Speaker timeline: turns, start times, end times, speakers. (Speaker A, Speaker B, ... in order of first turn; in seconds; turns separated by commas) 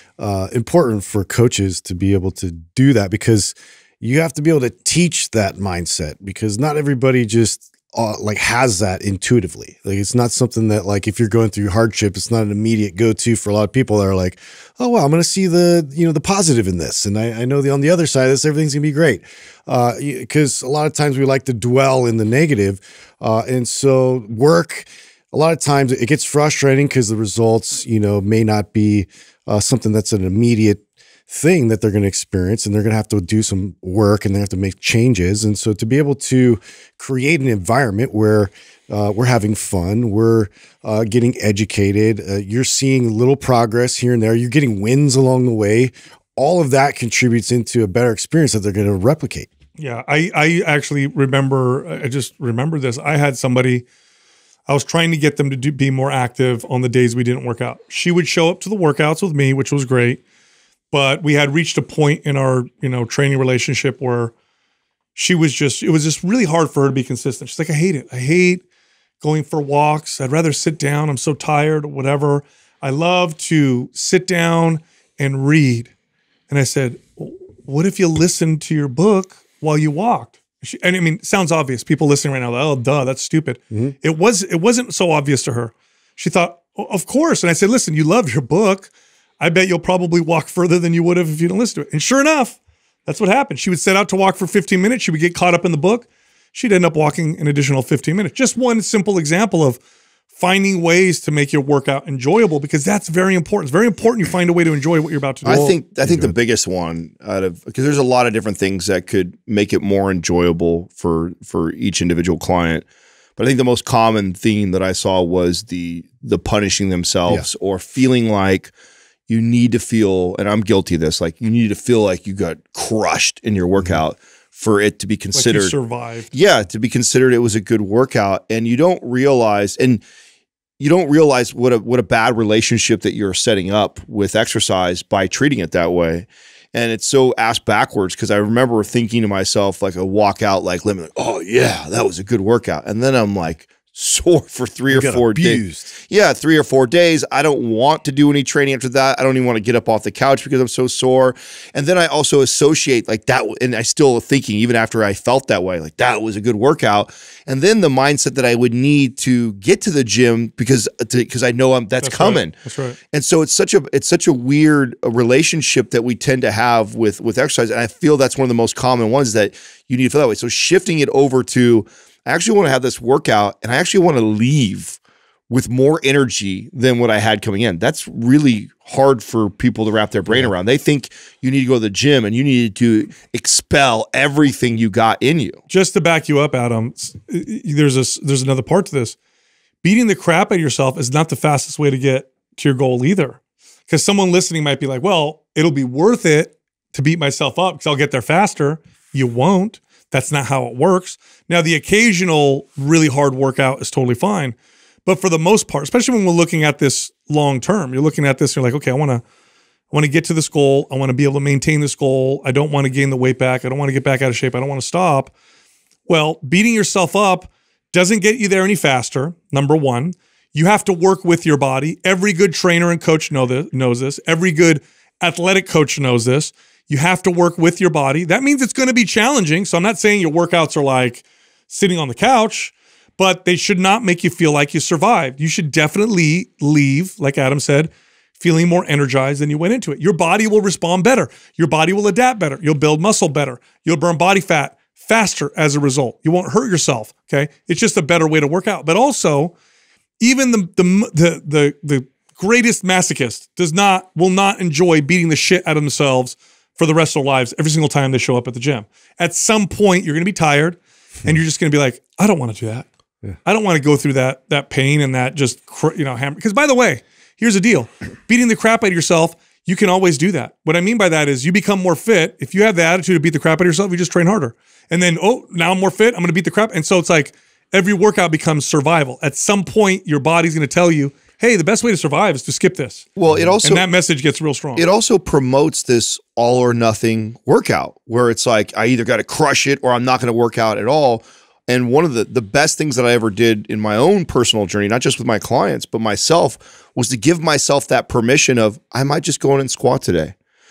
Speaker A: 0.2-49.5, Speaker B: 49.8-53.8, Speaker B: 54.7-60.2, Speaker B: 60.9-64.3, Speaker B: 65.1-68.6, Speaker B: 69.2-75.9, Speaker B: 76.5-99.8, Speaker B: 100.3-105.7, Speaker C: 105.4-112.8, Speaker A: 105.4-106.3, Speaker C: 113.4-118.7, Speaker C: 119.3-125.7, Speaker B: 125.3-126.3, Speaker C: 126.3-130.0, Speaker C: 130.8-162.5, Speaker A: 144.9-146.0, Speaker B: 162.0-163.0, Speaker C: 163.1-175.0, Speaker C: 175.5-185.6, Speaker B: 185.7-189.2, Speaker B: 189.8-209.2, Speaker B: 209.9-215.3, Speaker B: 216.1-249.5, Speaker B: 250.2-262.9, Speaker B: 263.4-283.1, Speaker C: 283.1-283.9, Speaker A: 283.3-283.6, Speaker B: 283.6-284.9, Speaker C: 284.8-300.3